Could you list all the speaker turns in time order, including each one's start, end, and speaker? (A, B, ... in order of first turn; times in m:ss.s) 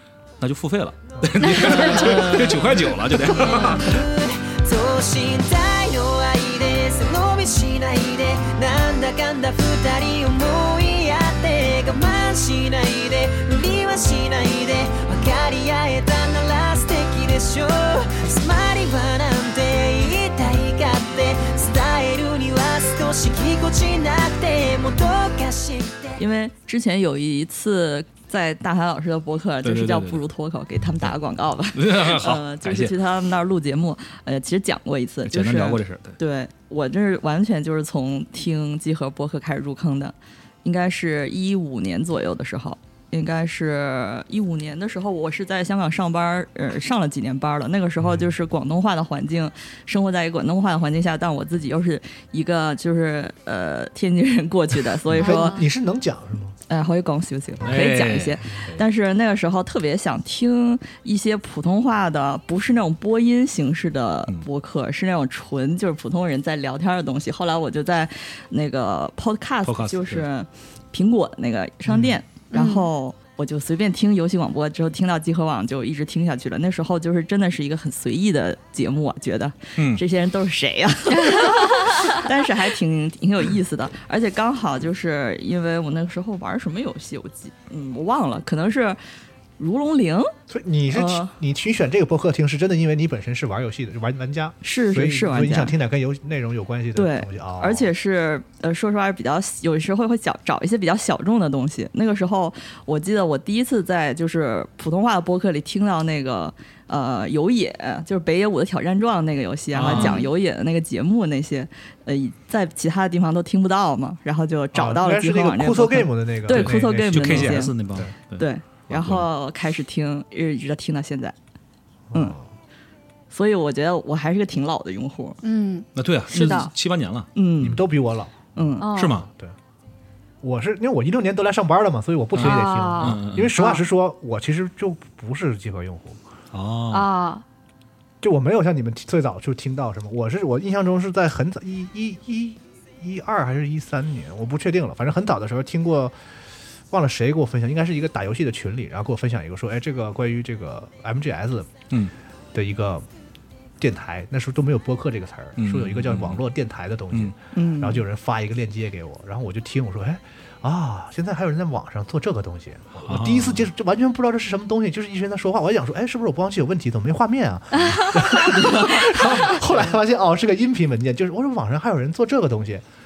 0:00.4-0:04.0 A
0:01.4-0:02.4 B
0:03.2-0:26.2 C
0:26.2-0:55.6 D
0:29.6-0:30.2 A
0:31.7-0:32.9 A
0:35.3-0:36.2 A
0:55.1-0:56.6 E
0:55.2-0:55.6 B
0:56.7-1:29.0 D
0:57.6-0:58.8 A
1:09.6-1:10.2 A
1:12.5-1:12.9 B
1:19.8-1:20.0 A
1:21.2-1:22.2 B
1:29.6-1:30.3 D
1:30.5-1:37.9 E
1:30.9-1:31.3 D
1:34.6-1:35.7 D
1:36.9-1:57.7 D
1:49.7-1:50.2 A
1:49.9-1:50.2 E
1:54.7-1:58.1 E
1:56.5-1:59.2 A
1:58.3-2:01.3 D
2:02.1-2:02.5 E
2:03.3-2:05.4 D
2:05.4-2:06.7 B
2:06.0-2:07.3 A
2:06.3-2:06.6 D
2:07.3-2:07.8 D
2:07.6-2:09.5 E
2:08.6-2:08.9 D
2:08.8-2:09.2 B
2:08.9-2:09.3 A
2:10.4-2:16.2 E
2:12.3-2:13.6 A
2:12.4-2:13.8 B
2:16.5-2:17.1 A
2:16.9-2:17.4 B
2:18.2-2:26.2 E
2:26.9-2:31.9 E
2:32.5-2:33.1 E
2:33.8-2:52.8 E
2:35.6-2:36.4 A
2:37.5-2:38.0 D
2:43.0-2:43.6 A
2:47.9-2:48.2 B